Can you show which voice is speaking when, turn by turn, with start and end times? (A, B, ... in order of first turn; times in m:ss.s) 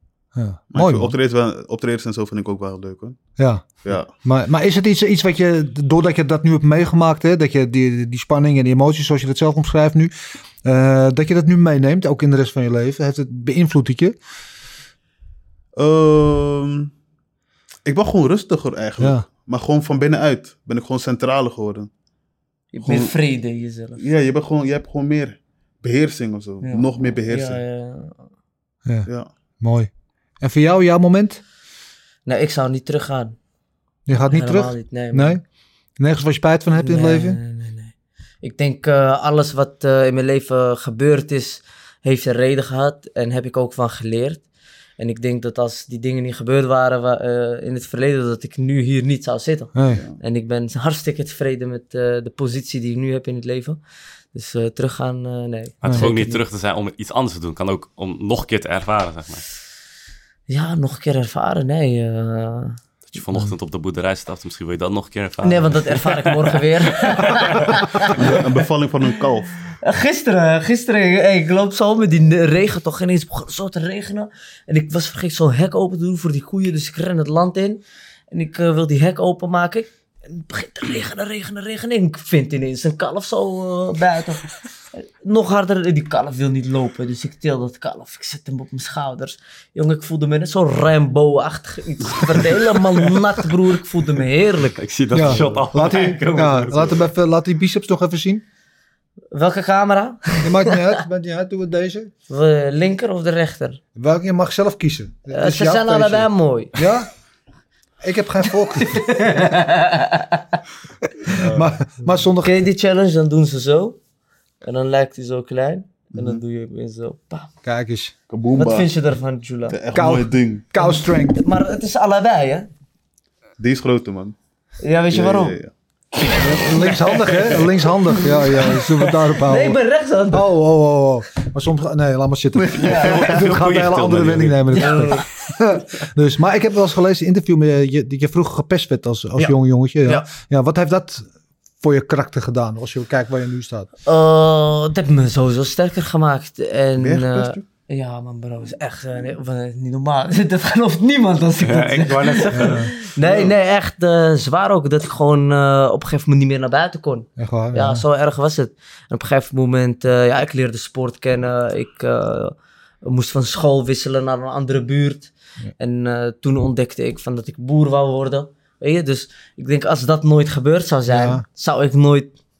0:00.4-0:01.2 A
0:00.7-0:03.2 B
0:03.4-0:10.1 A
0:03.8-0:04.1 B
0:10.6-0:14.2 A
0:15.8-0:16.9 B
0:17.9-0:21.9 B
0:19.0-0:19.2 A
0:22.7-0:24.0 C
0:22.8-0:23.1 B
0:24.0-0:27.6 B
0:26.6-0:28.2 C
0:29.6-0:29.9 A
0:30.4-0:31.4 A
0:32.3-0:33.4 C
0:34.1-0:35.4 A
0:34.3-0:35.4 C
0:36.0-0:37.4 A
0:36.7-0:44.4 C
0:45.0-0:53.8 C
0:49.7-0:50.0 A
0:49.9-0:50.2 B
0:54.3-0:56.4 C
0:55.8-0:59.4 D
1:00.5-1:02.8 C
1:03.1-1:07.7 D
1:05.4-1:08.4 C
1:08.1-1:09.6 B
1:09.7-1:17.8 C
1:18.3-1:34.8 C
1:34.8-1:37.1 D
1:35.1-1:38.4 A
1:39.3-1:41.0 C
1:40.4-1:42.1 A
1:42.3-1:43.8 C
1:44.0-1:47.1 A
1:45.3-1:46.8 C
1:48.0-1:49.0 A
1:48.7-1:50.6 C
1:51.3-1:51.8 B
1:51.4-1:52.6 A
1:52.4-1:54.0 C
1:54.6-1:57.5 C
1:56.2-1:56.4 B
1:57.6-1:58.1 A
1:58.3-1:58.9 B
1:58.6-1:59.8 C
1:59.7-2:00.7 B
1:59.9-2:01.4 A
2:00.8-2:02.7 C
2:03.6-2:04.4 B
2:04.8-2:05.6 C
2:05.1-2:05.7 B
2:06.2-2:07.4 C
2:06.4-2:09.8 A
2:08.2-2:08.8 C
2:09.4-2:10.5 C
2:10.3-2:21.3 A
2:12.6-2:13.4 B
2:12.8-2:13.1 C
2:12.9-2:15.1 D
2:14.7-2:15.2 C
2:21.8-2:23.9 A
2:24.1-2:52.3 C
2:27.0-2:27.6 B
2:31.6-2:32.9 D
2:32.5-2:32.9 A
2:33.2-2:33.5 B
2:37.4-2:38.0 A
2:51.1-2:51.4 A